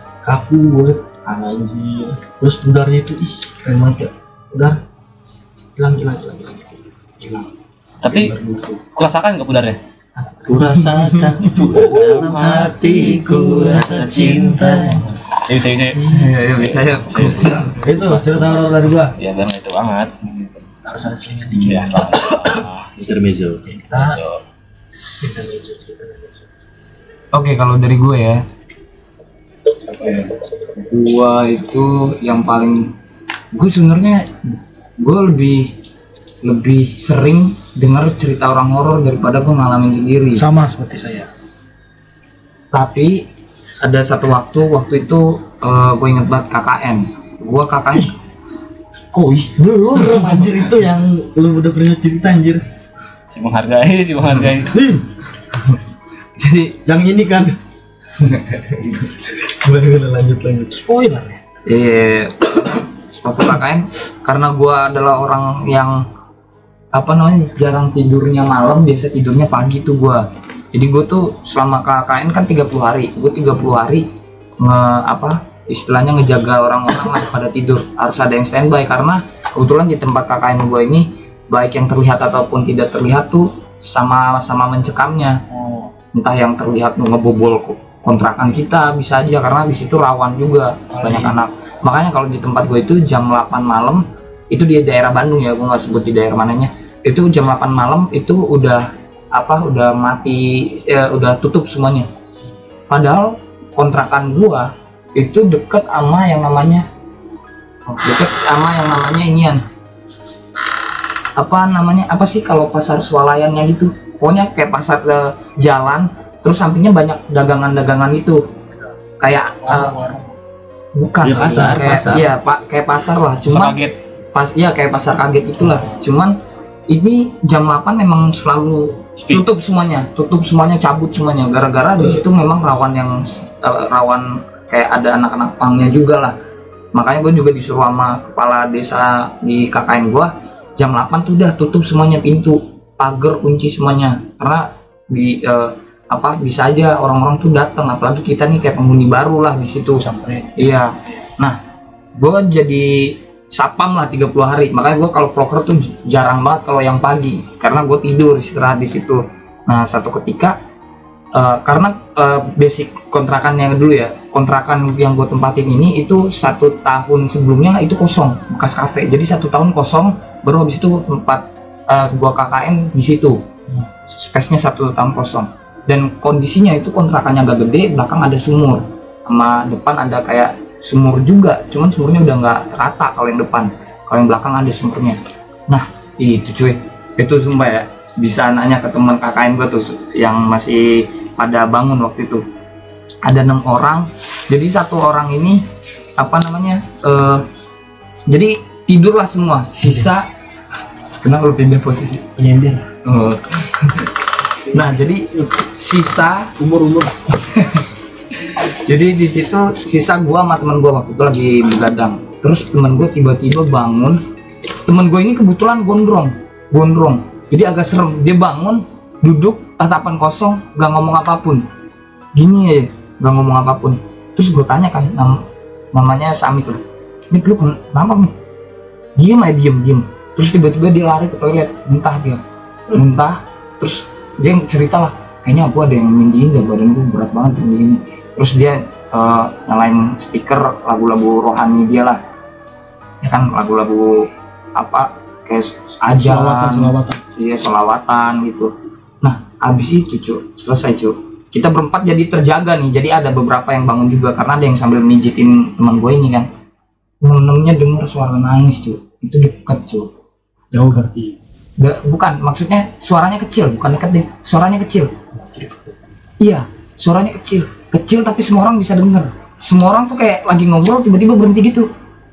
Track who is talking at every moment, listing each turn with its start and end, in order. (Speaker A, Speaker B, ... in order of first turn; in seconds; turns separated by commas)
Speaker A: 0.2-8.8, Speaker B: 8.0-8.3, Speaker B: 8.9-9.8, Speaker C: 10.5-15.0, Speaker D: 10.9-11.3, Speaker A: 11.6-12.3, Speaker B: 12.1-14.3, Speaker E: 12.2-15.0, Speaker B: 15.4-17.6, Speaker D: 16.1-17.7, Speaker C: 17.1-17.9, Speaker A: 17.8-19.1, Speaker B: 19.1-20.1, Speaker E: 20.8-22.4, Speaker B: 21.6-22.9, Speaker C: 22.9-24.2, Speaker E: 23.7-24.2, Speaker B: 23.9-24.4, Speaker E: 25.2-26.1, Speaker D: 27.3-28.4, Speaker D: 29.9-32.9, Speaker D: 33.5-35.7, Speaker D: 36.4-40.4, Speaker E: 40.4-41.3, Speaker D: 42.7-43.2, Speaker D: 43.8-48.1, Speaker D: 49.1-50.5, Speaker A: 49.4-52.6, Speaker B: 53.3-54.8, Speaker A: 54.6-55.0, Speaker D: 56.4-56.8, Speaker A: 56.8-57.6, Speaker D: 58.2-58.5, Speaker A: 58.6-60.8, Speaker E: 60.7-61.4, Speaker D: 61.6-66.0, Speaker D: 66.9-74.1, Speaker D: 74.6-85.4, Speaker E: 85.5-85.9, Speaker D: 86.1-102.1, Speaker E: 90.9-91.4, Speaker D: 102.9-106.9, Speaker D: 108.0-109.6, Speaker D: 111.4-118.4, Speaker D: 119.2-120.0, Speaker E: 119.6-120.3, Speaker D: 120.9-123.8, Speaker C: 121.2-122.3, Speaker B: 123.5-124.0, Speaker D: 124.3-126.4, Speaker D: 126.9-136.3, Speaker D: 136.9-150.0, Speaker E: 150.0-150.7, Speaker D: 150.6-151.6, Speaker D: 152.2-160.6, Speaker D: 161.3-173.4, Speaker D: 174.1-192.4, Speaker D: 193.2-195.6, Speaker D: 196.2-197.4, Speaker D: 198.3-200.3, Speaker D: 201.2-202.2, Speaker E: 202.4-202.9, Speaker D: 203.0-204.1, Speaker E: 204.6-205.5, Speaker D: 204.7-206.5, Speaker E: 206.6-207.1, Speaker D: 207.5-207.8, Speaker D: 208.4-214.2, Speaker D: 214.7-221.6, Speaker D: 222.3-228.3, Speaker D: 229.2-242.2, Speaker D: 243.2-248.7, Speaker E: 246.2-247.2, Speaker D: 249.2-256.5, Speaker D: 257.2-260.1, Speaker E: 260.7-261.3, Speaker D: 260.8-261.1, Speaker D: 261.8-265.1, Speaker D: 266.4-271.9